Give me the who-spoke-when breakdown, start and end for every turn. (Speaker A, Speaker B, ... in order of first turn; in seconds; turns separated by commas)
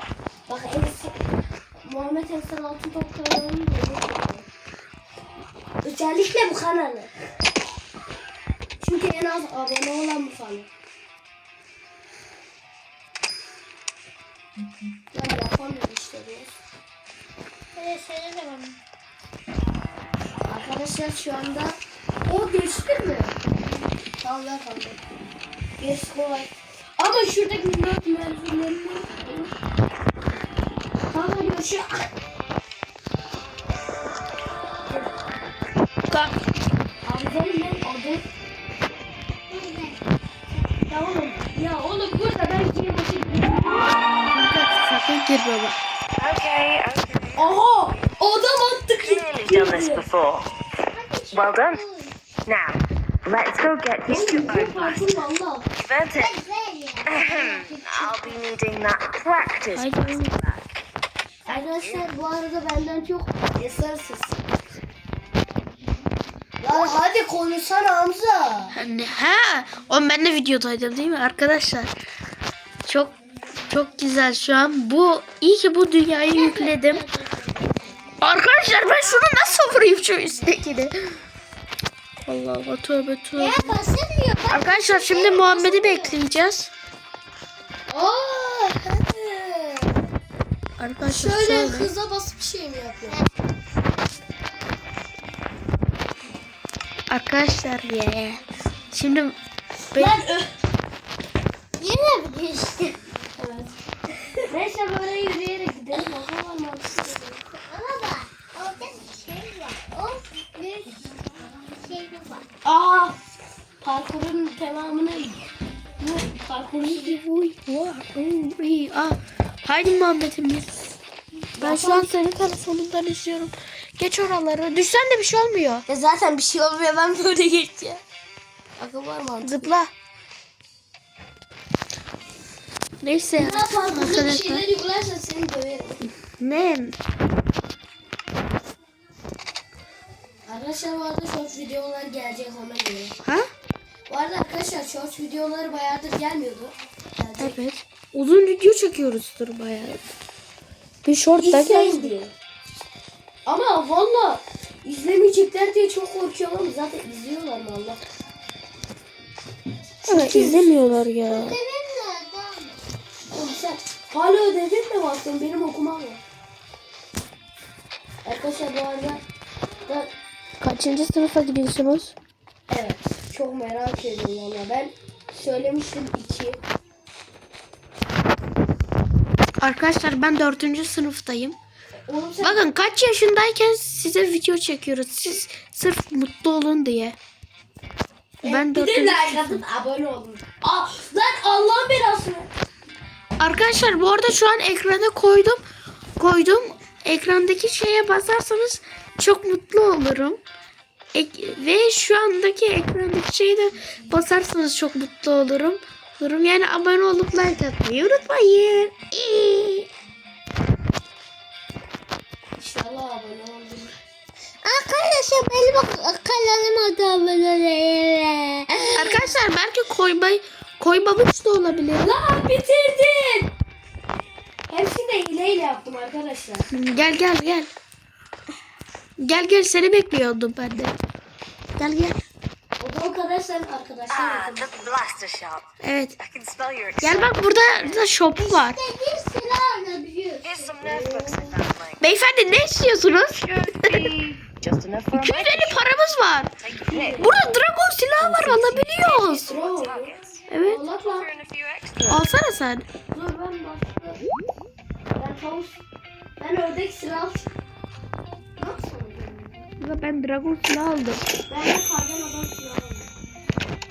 Speaker A: 0.5-1.1, Speaker A: 1.8-4.5, Speaker A: 5.8-7.1, Speaker A: 8.8-10.7, Speaker A: 15.1-16.6, Speaker B: 17.8-18.8, Speaker A: 20.4-23.4, Speaker A: 24.2-25.0, Speaker A: 25.8-29.5, Speaker A: 31.1-32.1, Speaker C: 36.1-36.4, Speaker A: 37.0-38.2, Speaker B: 39.5-40.0, Speaker A: 40.9-43.9, Speaker C: 44.3-45.8, Speaker D: 46.2-47.6, Speaker A: 47.4-50.0, Speaker D: 49.0-50.5, Speaker B: 50.9-52.1, Speaker D: 51.3-51.8, Speaker D: 52.5-55.2, Speaker A: 54.1-55.6, Speaker D: 55.7-56.4, Speaker B: 56.1-58.1, Speaker D: 57.0-60.6, Speaker C: 59.7-60.3, Speaker A: 61.4-64.4, Speaker D: 61.5-62.1, Speaker A: 66.6-68.7, Speaker C: 68.7-71.9, Speaker C: 72.8-73.1, Speaker C: 73.7-77.0, Speaker B: 76.3-77.9, Speaker C: 78.2-81.1, Speaker C: 82.2-83.8, Speaker B: 83.3-86.1, Speaker C: 84.5-86.7, Speaker A: 87.9-90.0, Speaker C: 90.8-91.9, Speaker A: 91.0-93.2, Speaker C: 97.1-98.4, Speaker C: 98.9-99.3, Speaker C: 99.9-100.2, Speaker A: 99.9-100.5, Speaker B: 101.8-103.0, Speaker A: 103.4-103.7, Speaker A: 104.5-107.4, Speaker B: 107.6-111.0, Speaker B: 111.8-112.5, Speaker A: 112.6-113.1, Speaker A: 113.8-115.5, Speaker A: 116.0-117.2, Speaker C: 116.8-120.7, Speaker A: 121.6-122.1, Speaker C: 121.6-125.8, Speaker A: 125.9-128.0, Speaker A: 128.8-129.7, Speaker C: 129.4-129.9, Speaker C: 133.0-134.6, Speaker A: 133.3-136.0, Speaker C: 136.4-136.9, Speaker A: 140.5-143.1, Speaker A: 144.1-147.6, Speaker C: 147.4-150.0, Speaker C: 151.0-152.1, Speaker A: 151.4-152.3, Speaker A: 153.4-158.0, Speaker C: 160.0-161.6, Speaker A: 160.1-160.8, Speaker B: 161.2-162.8, Speaker A: 163.3-166.2, Speaker A: 168.2-169.2, Speaker C: 170.6-172.1, Speaker A: 172.7-176.6, Speaker C: 179.6-181.6, Speaker A: 182.1-182.6, Speaker C: 182.4-187.2, Speaker C: 188.4-189.6, Speaker A: 188.4-192.5, Speaker C: 193.4-195.6, Speaker C: 196.2-200.4, Speaker C: 201.1-209.9, Speaker A: 212.6-214.0, Speaker B: 214.6-218.7, Speaker C: 218.9-222.1, Speaker A: 222.0-223.5, Speaker A: 224.7-226.7, Speaker C: 226.7-227.7, Speaker C: 229.2-231.0, Speaker C: 231.8-232.2, Speaker A: 232.8-234.9, Speaker D: 234.1-235.7, Speaker C: 235.8-236.1, Speaker D: 236.2-238.1, Speaker C: 237.0-238.8, Speaker B: 238.3-240.7, Speaker D: 240.4-242.0, Speaker A: 240.8-241.6, Speaker C: 242.0-244.1, Speaker D: 243.4-245.8, Speaker C: 245.1-246.5, Speaker D: 246.6-247.4, Speaker A: 246.9-247.4, Speaker C: 247.2-249.5, Speaker D: 248.2-250.5, Speaker A: 249.5-251.3, Speaker C: 250.5-250.8, Speaker D: 251.0-252.2, Speaker C: 252.1-252.8, Speaker A: 253.1-254.2, Speaker A: 255.1-255.8, Speaker A: 256.4-257.5, Speaker A: 258.6-259.6, Speaker C: 259.8-261.2, Speaker A: 261.5-263.1